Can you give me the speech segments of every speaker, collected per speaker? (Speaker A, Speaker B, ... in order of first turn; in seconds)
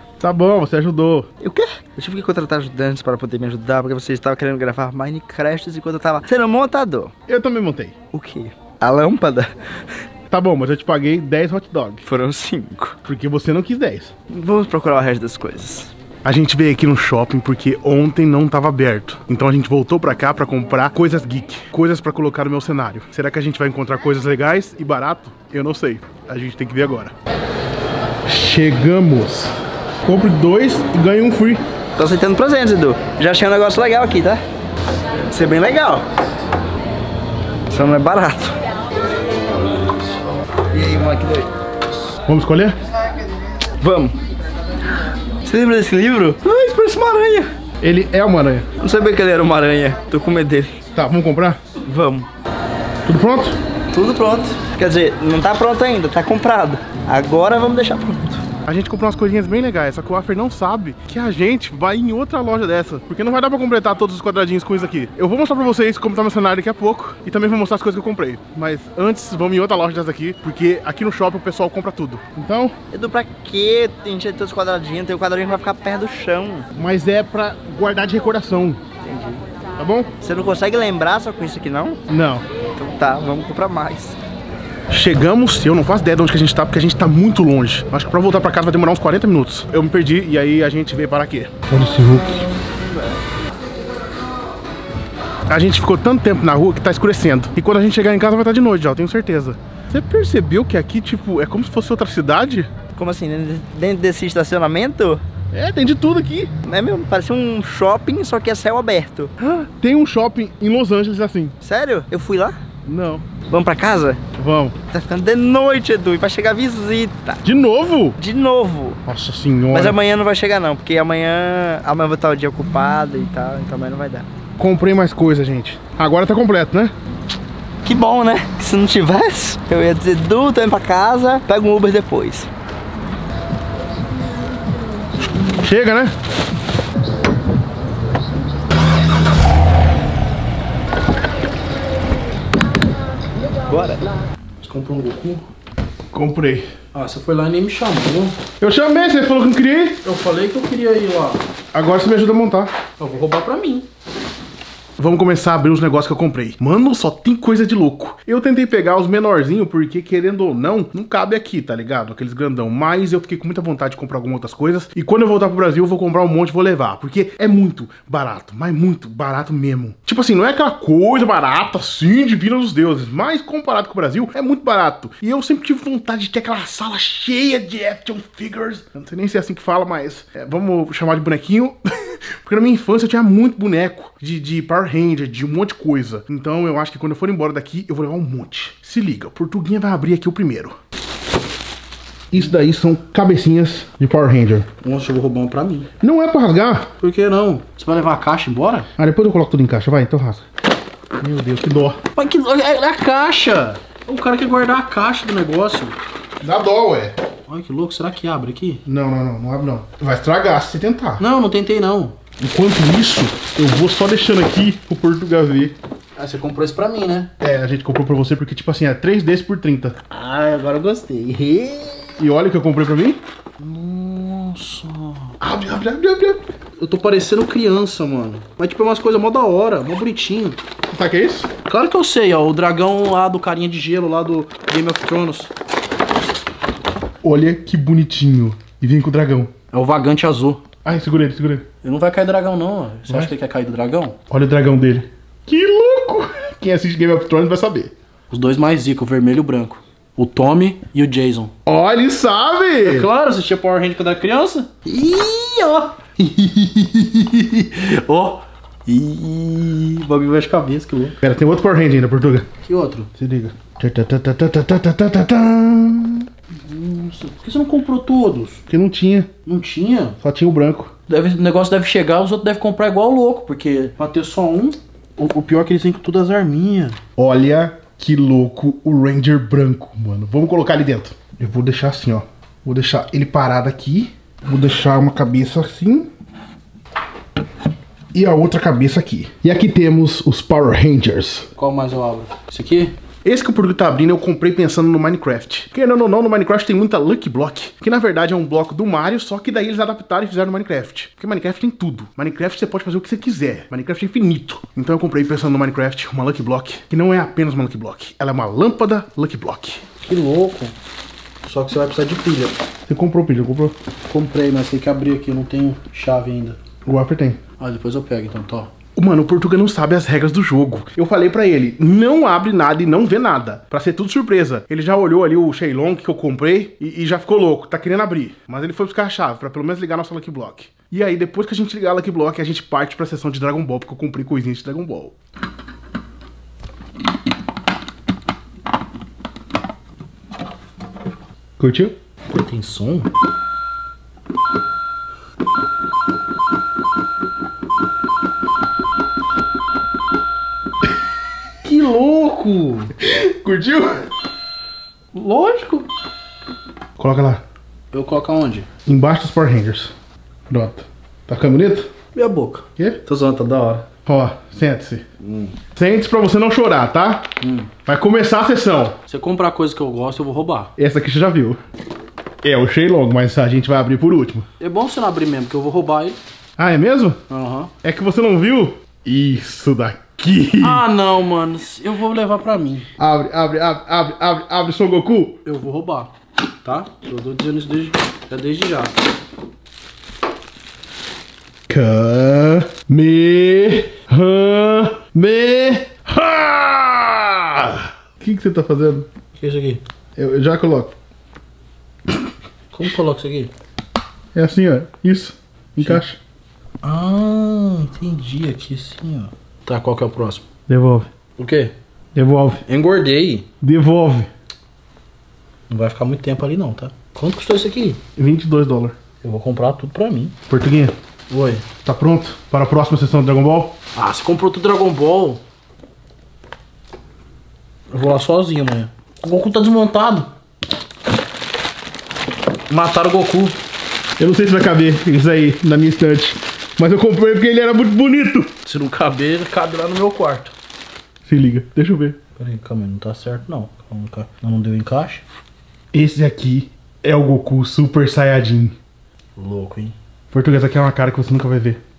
Speaker A: 0.2-1.3, 7.3-8.0, 10.3-12.0, 13.0-14.1, 16.2-27.1, 28.2-29.5, 30.0-31.6, 42.2-42.8, 47.8-48.7, 50.9-51.6, 53.0-53.6, 58.6-72.8, 76.7-78.8, 79.8-80.1, 82.1-82.4, 84.9-92.4, 95.5-102.7, 105.5-106.5, 109.4-111.5, 112.8-113.2, 114.3-114.8, 117.4-118.2, 119.0-120.0, 124.6-126.9, 135.5-136.2, 146.1-146.7, 148.6-150.0, 151.7-152.7, 155.0-190.8, 192.3-194.7, 196.0-196.9, 199.0-200.4, 201.2-202.0, 206.4-207.2, 208.8-211.2, 212.4-215.8, 217.4-220.0, 222.2-223.2, 225.4-226.4, 230.9-231.5, 237.2-239.5, 240.8-241.7, 244.3-247.9, 251.7-253.1, 261.2-262.5, 263.1-266.3, 268.7-269.3, 270.2-270.9, 277.1-286.1, 288.1-291.5, 293.2-309.9, 312.9-313.7, 316.8-317.4, 318.9-335.1, 341.6-341.9, 353.0-354.1, 357.0-357.4, 358.9-359.9, 360.5-361.9, 364.0-365.0, 365.8-367.3, 367.9-369.0, 370.8-371.6, 372.4-374.5, 376.6-377.2, 377.8-380.9, 383.0-385.4, 391.7-399.1, 400.1-400.9, 404.3-406.2, 410.7-411.1, 412.1-412.6, 413.6-414.3, 418.2-418.9, 420.5-420.9, 421.8-423.8, 434.2-438.5, 441.2-442.2, 445.9-448.8, 450.3-451.8
Speaker B: 1.4-7.1, 8.1-9.5, 12.1-13.0, 14.3-15.9, 32.0-34.4, 35.3-36.0, 37.7-38.6, 40.7-41.5, 43.8-44.1, 45.5-47.5, 48.8-50.8, 51.9-52.3, 53.9-58.4, 72.9-76.7, 79.0-79.4, 80.2-82.0, 82.8-84.2, 102.9-105.2, 106.6-109.3, 111.6-112.6, 113.5-114.2, 114.9-117.4, 118.2-119.0, 119.7-124.3, 127.8-132.5, 143.7-144.0, 220.1-222.2
Speaker C: 144.6-145.4, 146.9-148.4, 150.0-151.4, 153.0-153.9, 194.8-195.9, 197.0-198.9, 202.2-206.0, 207.5-208.8, 211.2-212.2, 216.2-217.3, 223.6-225.4, 226.8-230.6, 231.6-235.5, 239.7-240.6, 241.8-244.2, 248.3-251.5, 252.8-261.2, 262.6-263.1, 266.6-268.6, 269.4-270.2, 271.1-277.0, 291.6-292.9, 310.0-310.7, 311.4-312.6, 314.1-316.6, 317.6-318.7, 342.3-343.1, 351.6-352.9, 355.1-355.9, 357.9-358.7, 362.1-363.9, 365.2-365.6, 367.4-367.7, 369.1-370.7, 374.6-376.2, 377.3-377.7, 380.6-382.9, 385.4-386.1, 386.6-388.9, 399.4-399.8, 402.7-403.5, 405.8-406.0, 406.8-410.4, 411.4-411.7, 412.7-413.5, 415.7-418.0, 419.2-420.4, 421.3-421.6, 423.9-425.4, 427.9-430.3, 432.7-433.6, 438.6-440.5, 442.4-445.2, 449.4-449.9